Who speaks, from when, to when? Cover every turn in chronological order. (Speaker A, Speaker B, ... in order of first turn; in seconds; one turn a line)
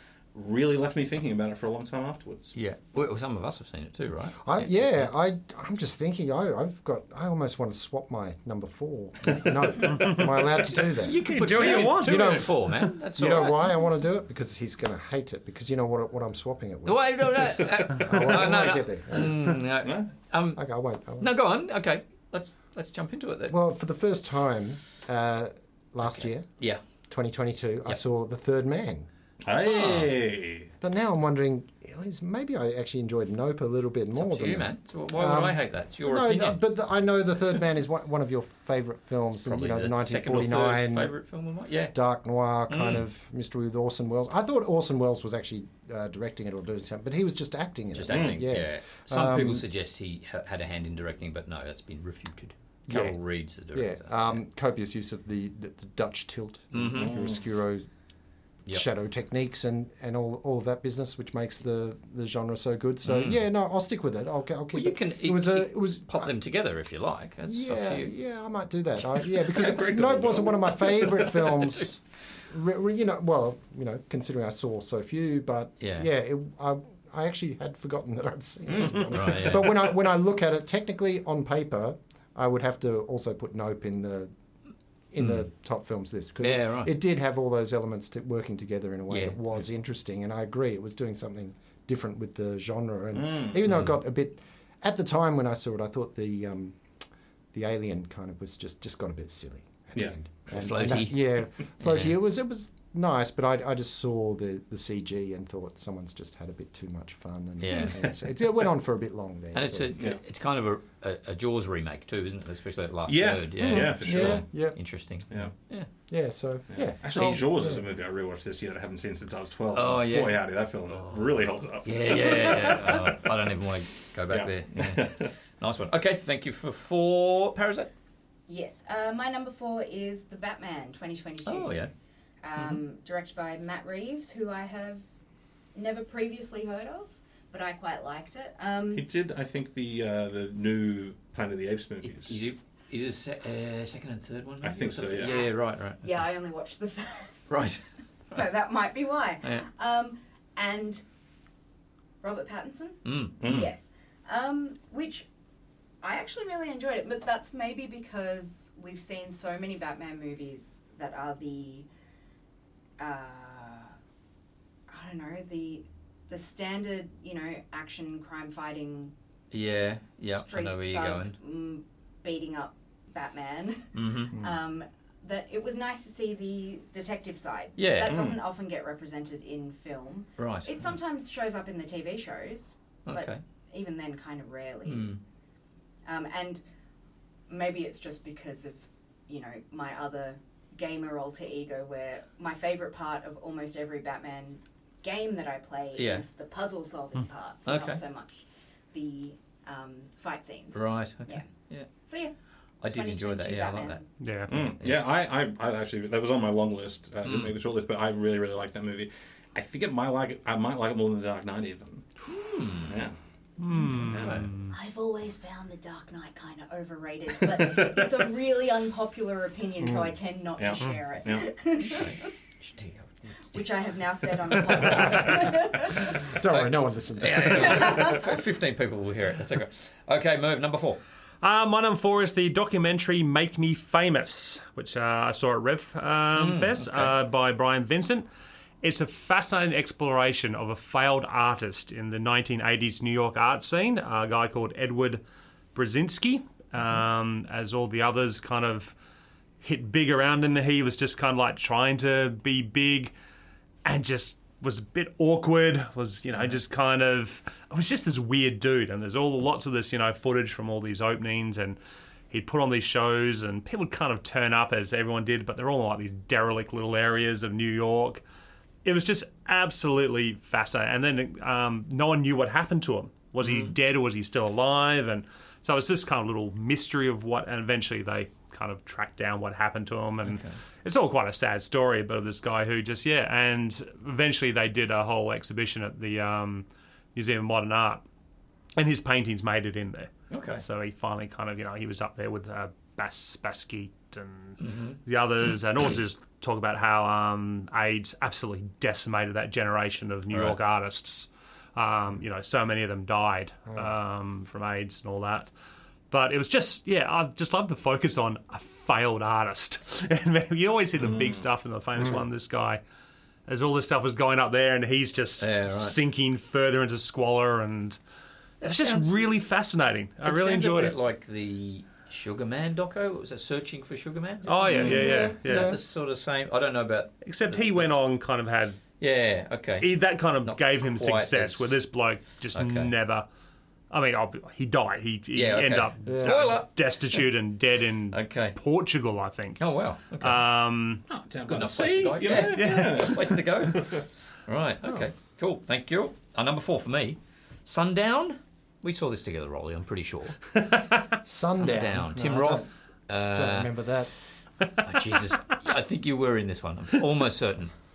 Speaker A: 0.3-2.5
Speaker B: 2.5-4.7
Speaker C: 4.4-19.5
Speaker D: 9.9-10.2
Speaker B: 10.6-13.8
Speaker D: 11.2-12.9
Speaker B: 16.9-20.6
Speaker A: 19.8-20.1
Speaker C: 20.6-21.3
Speaker B: 21.2-23.6
Speaker C: 23.5-26.5
Speaker B: 26.1-26.8
Speaker C: 27.1-29.1
Speaker A: 29.4-30.7
Speaker B: 29.6-30.1
Speaker C: 30.8-41.1
Speaker B: 34.1-36.6
Speaker B: 39.4-42.0
Speaker C: 41.9-49.6
Speaker B: 42.7-43.0
Speaker B: 47.9-54.4
Speaker A: 48.1-48.4
Speaker C: 52.9-53.2
Speaker C: 53.7-57.9
Speaker B: 56.7-57.1
Speaker A: 56.9-57.4
Speaker C: 58.7-66.3
Speaker B: 63.0-63.4
Speaker B: 64.7-68.1
Speaker C: 67.5-84.3
Speaker A: 69.5-71.3
Speaker B: 75.8-76.1
Speaker A: 78.7-79.7
Speaker B: 79.1-79.9
Speaker C: 85.1-96.8
Speaker B: 85.2-85.5
Speaker B: 86.4-86.9
Speaker B: 89.1-89.3
Speaker A: 93.1-93.7
Speaker C: 97.5-109.9
Speaker B: 100.5-101.2
Speaker B: 101.8-102.2
Speaker B: 107.6-108.0
Speaker B: 109.5-115.9
Speaker A: 113.1-114.4
Speaker C: 113.6-114.8
Speaker C: 116.1-117.8
Speaker A: 116.7-123.2
Speaker B: 117.1-117.5
Speaker B: 119.7-121.2
Speaker B: 121.8-127.9
Speaker A: 124.3-125.3
Speaker E: 128.5-131.9
Speaker B: 131.4-131.9
Speaker E: 132.4-135.0
Speaker E: 135.7-139.0
Speaker A: 138.9-142.4
Speaker B: 142.0-146.2
Speaker A: 144.6-145.4
Speaker E: 145.2-147.8
Speaker B: 147.5-147.8
Speaker E: 148.3-151.0
Speaker E: 152.2-155.2
Speaker B: 153.0-153.6
Speaker A: 153.4-153.7
Speaker E: 156.0-161.8
Speaker E: 163.0-163.9
Speaker E: 164.9-169.1
Speaker B: 169.5-171.3
Speaker E: 170.2-185.1
Speaker B: 173.9-174.3
Speaker B: 177.8-178.2
Speaker A: 178.1-178.4
Speaker B: 180.4-180.7
Speaker B: 183.1-183.4
Speaker B: 184.8-185.2
Speaker E: 186.0-186.6
Speaker E: 187.5-201.4
Speaker B: 196.0-196.2
Speaker B: 197.7-198.0
Speaker B: 200.7-201.9
Speaker E: 202.0-202.3
Speaker B: 202.8-205.1
Speaker E: 202.8-204.0
Speaker D: 204.2-204.5
Speaker A: 204.5-212.1
Speaker B: 207.2-207.5
Speaker B: 212.2-212.9
Speaker A: 212.8-213.1
Speaker D: 213.6-214.7
Speaker A: 213.8-214.5
Speaker B: 214.2-214.4
Speaker E: 214.7-222.2
Speaker A: 217.5-218.1
Speaker C: 219.8-220.1
Speaker A: 220.6-221.5
Speaker B: 221.8-223.6
Speaker E: 223.5-226.2
Speaker B: 224.6-225.6
Speaker C: 226.2-228.0
Speaker B: 226.4-231.0
Speaker E: 227.6-228.3
Speaker D: 231.4-238.2
Speaker B: 236.3-237.1
Speaker D: 238.8-245.2
Speaker D: 245.7-248.9
Speaker D: 249.6-253.1
Speaker D: 253.8-261.8
Speaker D: 262.3-268.2
Speaker D: 268.8-288.0
Speaker B: 273.4-273.7
Speaker B: 280.2-280.5
Speaker D: 288.8-305.5
Speaker B: 290.3-290.6
Speaker B: 294.6-295.0
Speaker B: 300.3-300.6
Speaker D: 306.1-312.8
Speaker A: 311.0-311.4
Speaker D: 313.5-318.0
Speaker B: 315.4-316.0
Speaker D: 318.6-320.9
Speaker B: 318.6-319.1
Speaker B: 320.2-328.0
Speaker D: 324.4-325.8
Speaker C: 324.7-325.8
Speaker A: 324.7-325.0
Speaker D: 327.2-328.8
Speaker B: 329.0-331.7
Speaker D: 329.8-333.2
Speaker B: 332.5-332.9
Speaker D: 333.9-339.6
Speaker B: 335.3-337.2
Speaker C: 336.1-336.5
Speaker B: 338.1-338.6
Speaker B: 339.6-340.4
Speaker D: 340.2-341.0
Speaker A: 341.1-344.0
Speaker B: 341.5-350.4
Speaker D: 342.4-343.0
Speaker D: 350.6-351.1
Speaker C: 351.2-354.1
Speaker B: 351.6-354.3
Speaker D: 354.6-355.3
Speaker B: 354.8-357.7